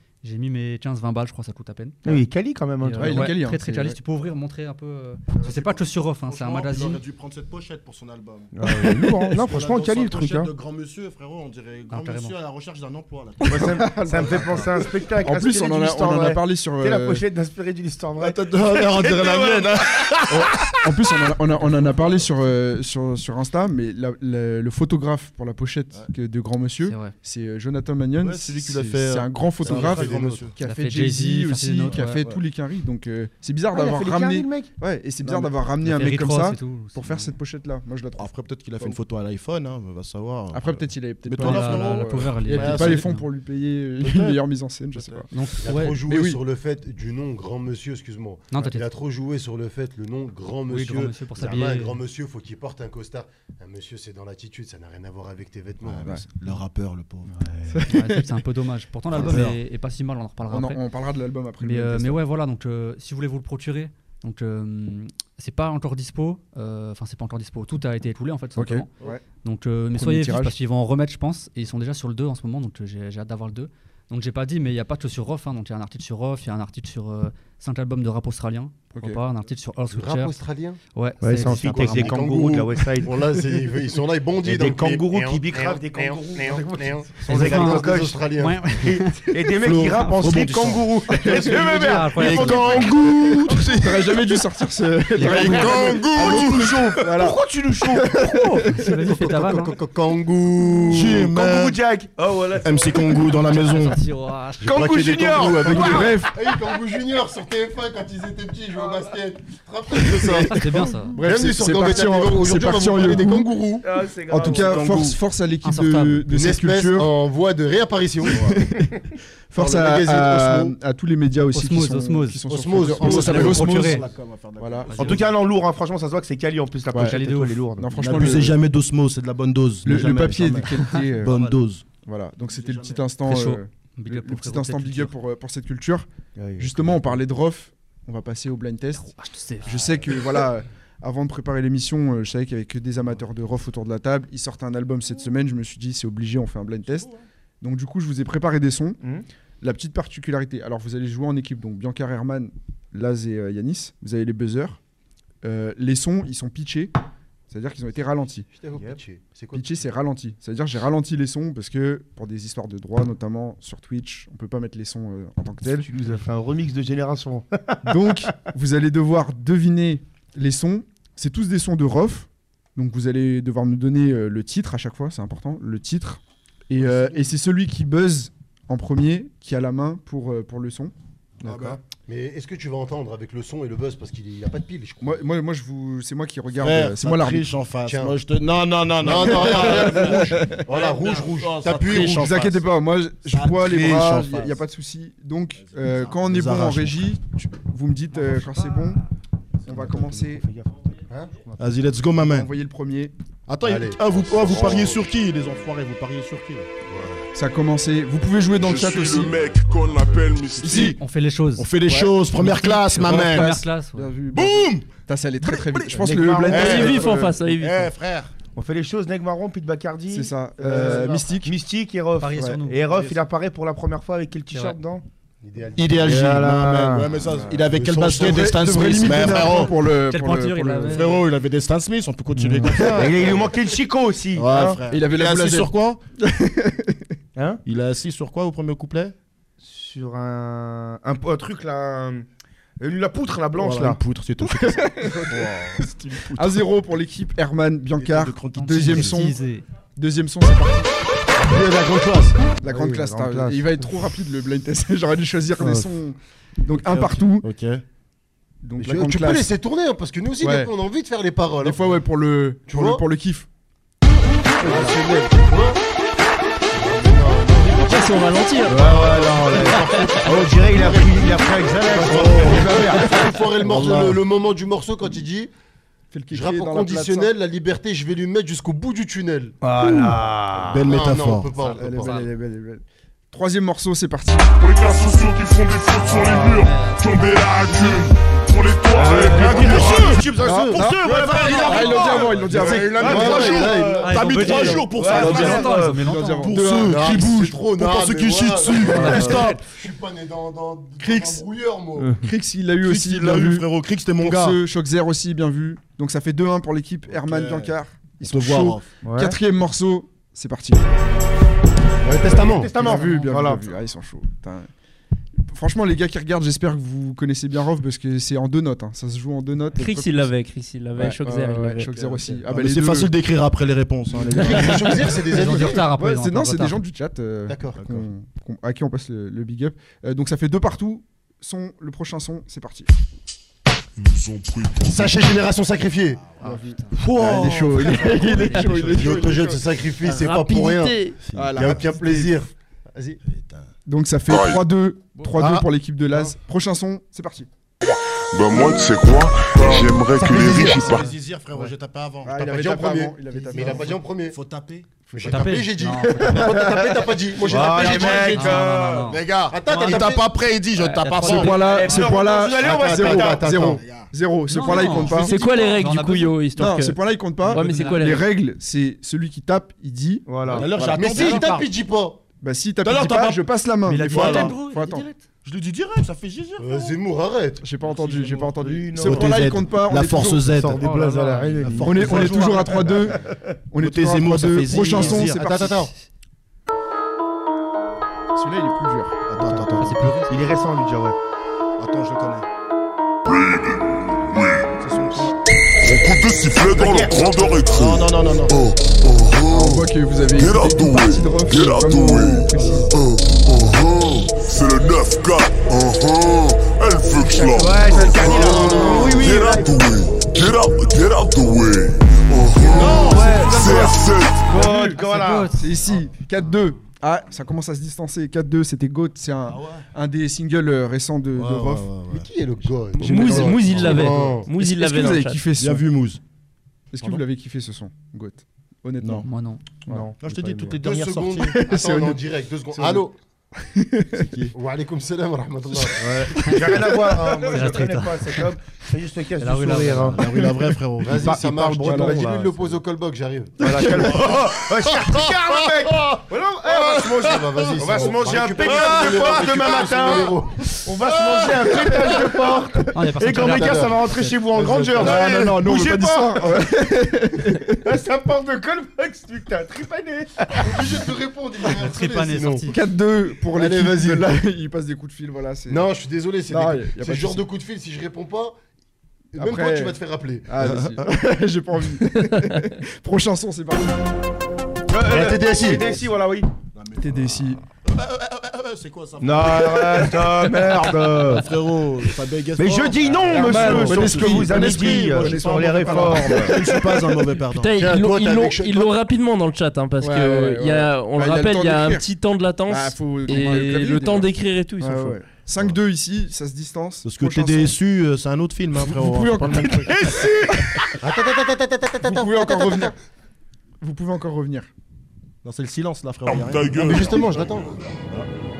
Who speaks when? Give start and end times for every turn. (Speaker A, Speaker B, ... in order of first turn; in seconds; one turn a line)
Speaker A: 0.2-2.2
Speaker B: 2.0-3.4
Speaker A: 2.8-7.0
Speaker C: 3.0-4.0
Speaker D: 5.3-5.9
Speaker E: 6.2-14.7
Speaker B: 8.5-10.5
Speaker C: 8.8-9.2
Speaker A: 11.9-12.3
Speaker B: 13.5-20.2
Speaker C: 13.6-14.7
Speaker C: 15.2-17.2
Speaker E: 18.2-20.5
Speaker C: 20.3-39.0
Speaker E: 21.5-22.3
Speaker A: 26.9-27.1
Speaker E: 28.2-30.6
Speaker D: 29.6-30.5
Speaker A: 30.6-32.2
Speaker E: 31.8-32.4
Speaker B: 33.7-34.7
Speaker E: 35.2-35.5
Speaker A: 35.8-37.3
Speaker E: 38.2-43.0
Speaker C: 40.5-45.3
Speaker A: 41.4-43.2
Speaker D: 42.6-43.0
Speaker E: 44.0-44.4
Speaker E: 44.9-45.2
Speaker A: 45.3-46.0
Speaker D: 45.6-56.1
Speaker C: 45.8-46.4
Speaker A: 48.5-48.9
Speaker A: 50.7-52.0
Speaker E: 55.8-57.8
Speaker C: 57.7-58.3
Speaker A: 57.9-60.9
Speaker E: 59.1-59.6
Speaker C: 59.2-59.4
Speaker C: 60.5-62.2
Speaker A: 61.6-68.9
Speaker C: 68.6-69.2
Speaker A: 69.4-80.4
Speaker C: 69.9-70.5
Speaker D: 79.9-80.8
Speaker A: 80.9-82.2
Speaker B: 81.2-83.4
Speaker D: 81.4-88.7
Speaker B: 84.4-93.5
Speaker A: 87.3-90.2
Speaker E: 89.6-91.0
Speaker C: 91.1-91.8
Speaker A: 91.3-93.4
Speaker E: 92.1-94.0
Speaker D: 92.2-92.9
Speaker C: 93.7-99.3
Speaker E: 95.2-96.5
Speaker D: 95.3-96.6
Speaker F: 95.3-96.9
Speaker B: 95.6-98.8
Speaker A: 98.6-99.8
Speaker D: 99.0-101.3
Speaker E: 100.9-101.8
Speaker B: 101.0-103.4
Speaker E: 102.6-104.0
Speaker A: 103.5-104.9
Speaker B: 104.6-106.2
Speaker D: 104.6-113.8
Speaker C: 105.6-106.3
Speaker B: 108.8-109.1
Speaker C: 110.3-113.5
Speaker A: 110.5-111.2
Speaker B: 113.8-115.0
Speaker C: 114.3-117.1
Speaker D: 114.5-115.0
Speaker E: 114.6-115.2
Speaker A: 115.6-116.3
Speaker D: 116.3-118.7
Speaker C: 118.2-118.9
Speaker C: 119.5-124.0
Speaker D: 119.5-120.7
Speaker A: 121.5-122.4
Speaker D: 122.5-123.8
Speaker E: 122.5-125.3
Speaker A: 123.3-124.0
Speaker C: 124.6-124.9
Speaker A: 124.9-125.2
Speaker B: 124.9-128.4
Speaker C: 126.9-127.2
Speaker A: 127.0-127.6
Speaker C: 127.8-128.6
Speaker E: 127.9-131.8
Speaker C: 129.8-131.4
Speaker A: 131.2-131.6
Speaker C: 132.0-147.1
Speaker E: 132.4-133.1
Speaker A: 133.2-135.1
Speaker B: 136.3-137.2
Speaker A: 139.0-140.0
Speaker E: 146.8-147.2
Speaker C: 147.6-149.0
Speaker B: 149.0-149.2
Speaker C: 149.6-154.8
Speaker C: 155.4-156.9
Speaker C: 157.5-158.5
Speaker D: 158.5-159.9
Speaker B: 158.7-159.0
Speaker C: 159.5-165.9
Speaker B: 165.6-168.3
Speaker C: 167.8-181.8
Speaker E: 181.4-181.8
Speaker D: 181.5-185.2
Speaker C: 185.0-187.5
Speaker E: 186.5-192.6
Speaker D: 187.8-188.2
Speaker D: 189.0-192.4
Speaker C: 189.3-190.6
Speaker C: 191.9-199.0
Speaker E: 193.3-194.6
Speaker E: 195.6-197.2
Speaker A: 198.3-198.6
Speaker B: 199.6-201.7
Speaker C: 199.7-200.4
Speaker E: 201.6-202.5
Speaker C: 202.2-203.1
Speaker E: 203.5-206.7
Speaker D: 203.6-205.0
Speaker D: 206.9-207.2
Speaker C: 207.3-209.3
Speaker F: 208.6-211.0
Speaker C: 210.6-210.9
Speaker E: 210.6-211.0
Speaker A: 210.7-211.7
Speaker E: 211.6-213.6
Speaker C: 211.8-217.4
Speaker A: 212.8-214.1
Speaker E: 214.3-214.9
Speaker E: 215.4-218.3
Speaker B: 215.9-217.1
Speaker G: 216.5-217.9
Speaker B: 218.5-225.0
Speaker C: 220.1-221.5
Speaker E: 220.8-221.2
Speaker A: 222.2-223.1
Speaker C: 222.3-222.6
Speaker A: 224.5-224.8
Speaker D: 225.4-226.5
Speaker E: 225.8-229.8
Speaker B: 226.0-227.2
Speaker C: 227.2-231.1
Speaker D: 227.6-229.5
Speaker A: 229.8-231.2
Speaker E: 230.8-233.5
Speaker C: 232.4-233.0
Speaker B: 232.7-234.8
Speaker D: 232.9-233.4
Speaker E: 234.3-236.0
Speaker C: 234.9-237.1
Speaker B: 237.3-237.6
Speaker E: 237.7-239.1
Speaker B: 239.6-242.2
Speaker B: 242.8-244.0
Speaker E: 243.6-246.6
Speaker C: 244.4-245.6
Speaker B: 245.3-245.6
Speaker C: 246.2-249.3
Speaker E: 247.9-249.2
Speaker A: 248.5-249.6
Speaker C: 250.0-250.9
Speaker E: 251.7-252.3
Speaker C: 252.6-257.5
Speaker B: 252.6-253.8
Speaker E: 256.7-257.8
Speaker C: 258.6-259.5
Speaker D: 258.8-262.0
Speaker C: 260.4-260.7
Speaker C: 261.6-263.5
Speaker D: 262.7-263.0
Speaker D: 264.5-265.8
Speaker C: 264.6-265.0
Speaker D: 266.7-268.1
Speaker G: 267.8-268.7
Speaker B: 268.6-273.4
Speaker D: 268.7-275.5
Speaker E: 272.0-273.0
Speaker E: 273.6-274.2
Speaker C: 276.1-277.3
Speaker D: 276.3-279.6
Speaker B: 279.6-280.9
Speaker E: 280.7-281.5
Speaker D: 280.8-282.2
Speaker A: 281.5-282.3
Speaker C: 281.8-284.6
Speaker F: 284.6-290.2
Speaker A: 286.0-288.1
Speaker B: 288.9-296.2
Speaker E: 289.0-295.8
Speaker D: 289.6-290.8
Speaker C: 290.4-293.6
Speaker D: 291.4-294.6
Speaker A: 294.0-296.6
Speaker C: 295.1-297.2
Speaker E: 296.4-299.6
Speaker D: 296.8-302.2
Speaker A: 298.9-299.6
Speaker B: 299.1-299.4
Speaker C: 301.0-301.4
Speaker C: 302.0-310.9
Speaker E: 302.8-304.6
Speaker E: 307.1-308.9
Speaker B: 309.0-309.4
Speaker D: 312.0-312.7
Speaker B: 312.3-313.6
Speaker C: 312.7-314.7
Speaker C: 315.5-320.3
Speaker G: 319.7-322.4
Speaker C: 320.9-323.1
Speaker E: 322.1-325.1
Speaker D: 324.1-325.9
Speaker C: 324.3-332.9
Speaker A: 324.5-326.8
Speaker D: 327.5-327.9
Speaker F: 334.0-335.3
Speaker D: 334.8-336.3
Speaker E: 336.2-338.3
Speaker C: 336.4-339.6
Speaker A: 336.4-339.4
Speaker G: 338.6-338.8
Speaker D: 338.9-340.9
Speaker E: 340.1-341.9
Speaker G: 340.1-341.2
Speaker C: 341.3-342.3
Speaker D: 341.5-343.2
Speaker E: 343.3-343.7
Speaker C: 343.9-347.5
Speaker F: 344.3-344.6
Speaker D: 345.4-346.3
Speaker F: 348.3-351.1
Speaker D: 350.2-350.9
Speaker E: 350.2-352.4
Speaker B: 350.2-351.0
Speaker C: 352.2-354.0
Speaker D: 352.4-354.4
Speaker E: 353.5-355.5
Speaker D: 355.1-360.3
Speaker A: 355.2-356.8
Speaker B: 356.3-356.9
Speaker E: 357.4-364.1
Speaker B: 357.4-359.0
Speaker A: 357.6-360.1
Speaker A: 360.9-361.9
Speaker D: 361.1-361.6
Speaker C: 361.2-365.3
Speaker B: 361.5-363.5
Speaker D: 362.6-363.9
Speaker A: 364.5-368.2
Speaker E: 364.6-365.3
Speaker G: 365.0-368.3
Speaker C: 366.6-371.0
Speaker B: 370.2-370.7
Speaker E: 370.5-371.7
Speaker D: 370.6-372.2
Speaker C: 372.4-375.1
Speaker E: 372.8-374.6
Speaker A: 373.9-375.2
Speaker E: 375.4-376.9
Speaker D: 376.6-377.7
Speaker C: 377.6-380.6
Speaker E: 377.8-380.9
Speaker B: 378.6-379.4
Speaker B: 380.4-383.4
Speaker A: 380.8-382.1
Speaker E: 381.5-383.2
Speaker C: 381.8-385.9
Speaker E: 383.8-385.9
Speaker D: 384.9-385.9
Speaker C: 388.3-389.2
Speaker E: 389.3-390.1
Speaker B: 389.4-391.2
Speaker A: 389.8-390.4
Speaker E: 391.8-392.4
Speaker F: 393.2-394.8
Speaker E: 394.8-395.4
Speaker F: 395.8-414.5
Speaker B: 396.7-397.2
Speaker E: 397.7-398.6
Speaker C: 399.5-402.9
Speaker E: 402.5-402.9
Speaker B: 407.4-409.8
Speaker C: 407.8-408.5
Speaker D: 408.1-409.3
Speaker E: 412.7-413.9
Speaker B: 412.9-413.9
Speaker B: 414.5-415.5
Speaker C: 414.5-415.0
Speaker A: 414.9-415.7
Speaker C: 415.5-421.9
Speaker E: 419.5-419.9
Speaker E: 421.4-422.3
Speaker D: 422.1-424.5
Speaker G: 422.9-425.4
Speaker C: 423.0-425.9
Speaker E: 425.6-426.2
Speaker C: 426.9-429.3
Speaker E: 429.0-429.3
Speaker A: 429.2-429.6
Speaker B: 429.9-430.8
Speaker E: 430.2-431.6
Speaker D: 430.8-433.1
Speaker C: 431.4-433.1
Speaker C: 433.6-434.5
Speaker E: 434.1-434.5
Speaker D: 434.5-437.8
Speaker B: 435.9-440.4
Speaker A: 437.3-438.5
Speaker A: 439.4-440.4
Speaker E: 440.1-441.4
Speaker D: 441.0-444.5
Speaker B: 441.1-442.7
Speaker C: 441.8-442.2
Speaker B: 443.6-456.7
Speaker D: 445.9-452.8
Speaker E: 448.6-449.5
Speaker A: 452.9-454.5
Speaker D: 453.4-453.9
Speaker D: 454.5-455.2
Speaker C: 455.0-457.8
Speaker B: 457.7-461.0
Speaker D: 460.6-462.7
Speaker A: 461.6-462.8
Speaker C: 462.7-465.9
Speaker D: 463.5-464.4
Speaker D: 465.7-468.6
Speaker C: 466.5-467.4
Speaker D: 469.3-470.7
Speaker C: 469.4-474.1
Speaker E: 470.6-471.0
Speaker B: 474.9-476.5
Speaker D: 475.0-476.0
Speaker E: 476.7-487.8
Speaker C: 477.0-477.6
Speaker B: 479.2-481.5
Speaker B: 482.5-486.8
Speaker C: 483.3-486.7
Speaker G: 487.5-495.2
Speaker D: 487.8-488.9
Speaker C: 490.0-492.1
Speaker C: 492.6-497.8
Speaker E: 497.0-500.4
Speaker C: 498.8-500.9
Speaker B: 499.9-500.9
Speaker D: 501.0-502.9
Speaker C: 502.0-502.9
Speaker C: 503.8-504.7
Speaker E: 505.4-508.3
Speaker F: 506.3-507.3
Speaker D: 506.8-507.8